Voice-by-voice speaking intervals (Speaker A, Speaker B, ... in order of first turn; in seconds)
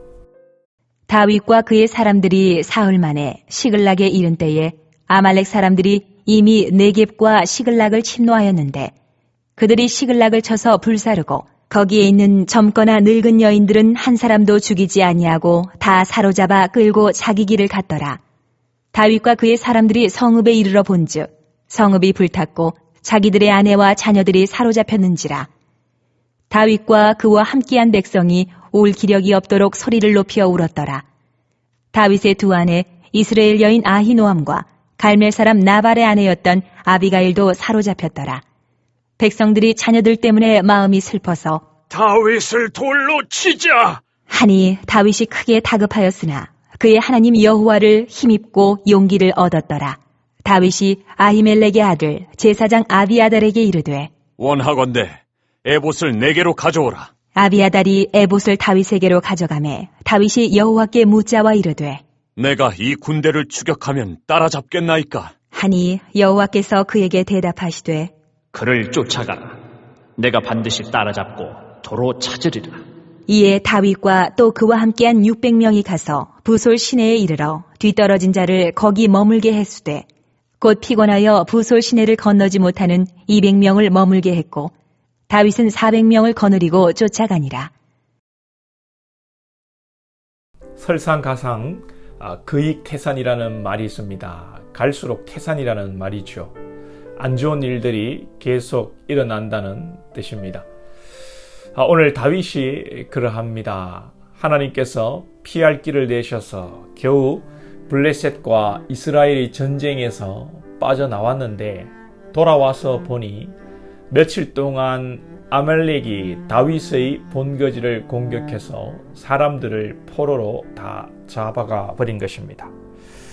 Speaker A: 1.1-8.9, 9.6-18.2, 18.9-25.5, 26.5-31.0, 31.9-38.4, 39.2-41.7, 44.3-54.1, 57.4-62.0, 65.5-68.1, 73.3-80.0, 80.6-84.7, 85.3-87.7
Speaker B: 41.9-44.0, 54.4-57.1, 62.4-65.3
Speaker C: 68.5-69.6, 70.2-72.8
Speaker D: 90.8-96.5, 97.2-100.7, 101.8-113.5, 114.1-122.7